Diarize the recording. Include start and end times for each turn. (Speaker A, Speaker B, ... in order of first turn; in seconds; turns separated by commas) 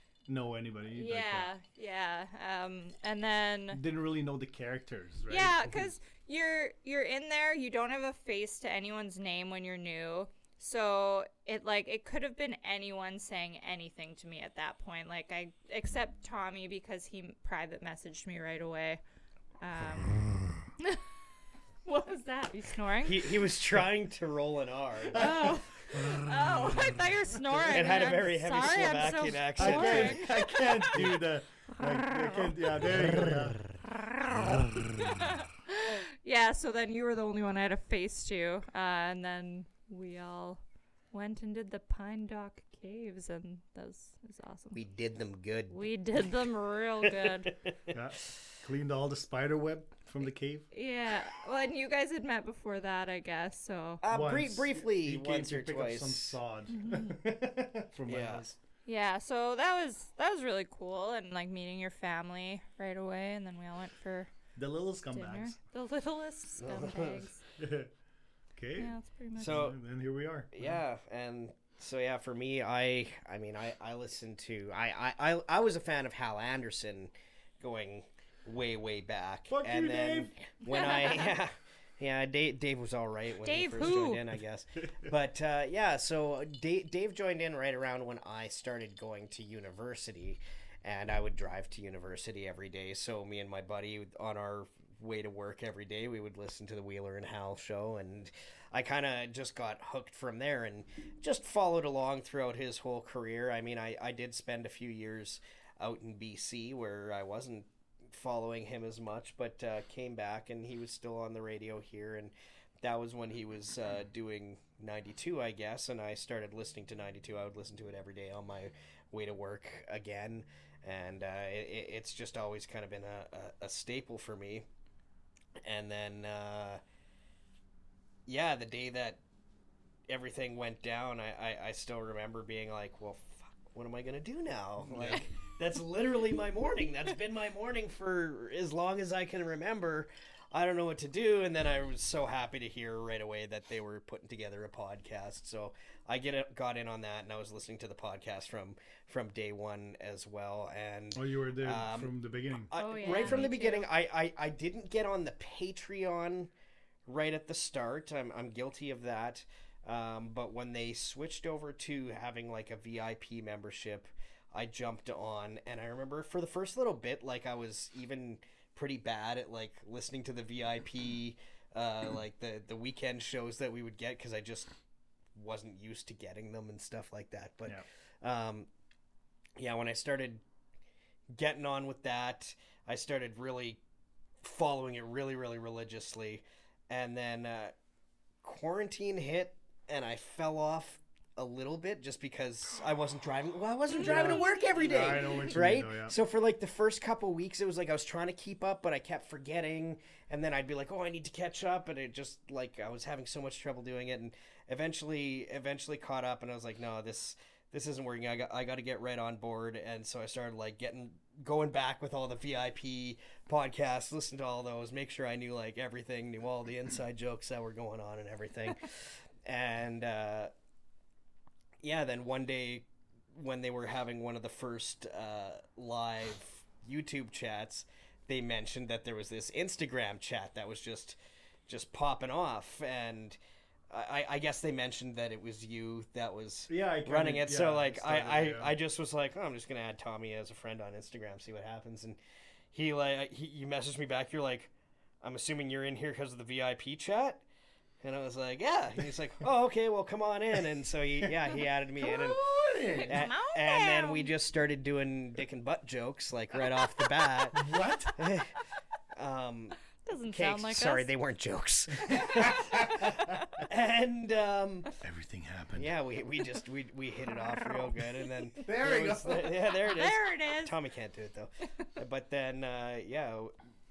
Speaker A: 0.3-1.5, Speaker B: 0.9-3.8, Speaker A: 3.7-5.9, Speaker B: 5.3-19.0, Speaker B: 19.6-20.2, Speaker B: 21.9-23.3, Speaker C: 23.0-25.6, Speaker B: 25.1-31.0, Speaker A: 25.1-27.0, Speaker C: 27.5-30.4, Speaker A: 29.6-33.6, Speaker C: 32.9-33.5, Speaker A: 34.3-35.3, Speaker B: 35.0-44.8, Speaker C: 44.7-46.3, Speaker B: 45.7-47.5, Speaker C: 47.2-48.0, Speaker A: 47.9-50.7, Speaker B: 50.7-54.0, Speaker C: 54.0-56.4, Speaker A: 54.1-58.6, Speaker B: 56.7-57.2, Speaker C: 58.1-58.5, Speaker B: 58.9-64.3, Speaker A: 64.5-65.6, Speaker B: 65.1-67.4, Speaker C: 66.6-67.3, Speaker A: 67.6-67.9, Speaker A: 68.6-70.8, Speaker B: 68.8-69.7, Speaker C: 69.4-69.8, Speaker C: 70.5-124.7, Speaker A: 79.5-80.3, Speaker B: 80.7-81.3, Speaker B: 83.4-84.2, Speaker C: 125.6-126.8, Speaker C: 128.3-129.2, Speaker C: 130.1-156.5, Speaker A: 134.8-135.2, Speaker A: 151.1-153.5, Speaker B: 152.7-153.9, Speaker C: 157.1-174.7, Speaker C: 175.3-178.7, Speaker C: 179.6-180.4, Speaker C: 181.3-183.8, Speaker C: 184.4-187.7, Speaker C: 188.4-220.5, Speaker B: 193.9-195.5, Speaker A: 194.0-196.2, Speaker C: 221.8-231.2, Speaker C: 231.7-233.4, Speaker C: 233.9-242.2, Speaker A: 236.7-238.7, Speaker C: 242.7-244.7, Speaker C: 245.2-247.4, Speaker C: 248.0-252.4, Speaker A: 252.0-253.3, Speaker B: 252.9-254.3, Speaker C: 253.1-257.6, Speaker A: 257.5-258.2, Speaker C: 258.2-258.5, Speaker C: 259.1-259.8, Speaker B: 260.0-261.1, Speaker C: 260.3-263.1, Speaker A: 262.1-263.1, Speaker C: 263.6-264.9, Speaker A: 265.0-265.9, Speaker C: 265.8-273.5, Speaker A: 268.6-269.5, Speaker B: 269.7-270.7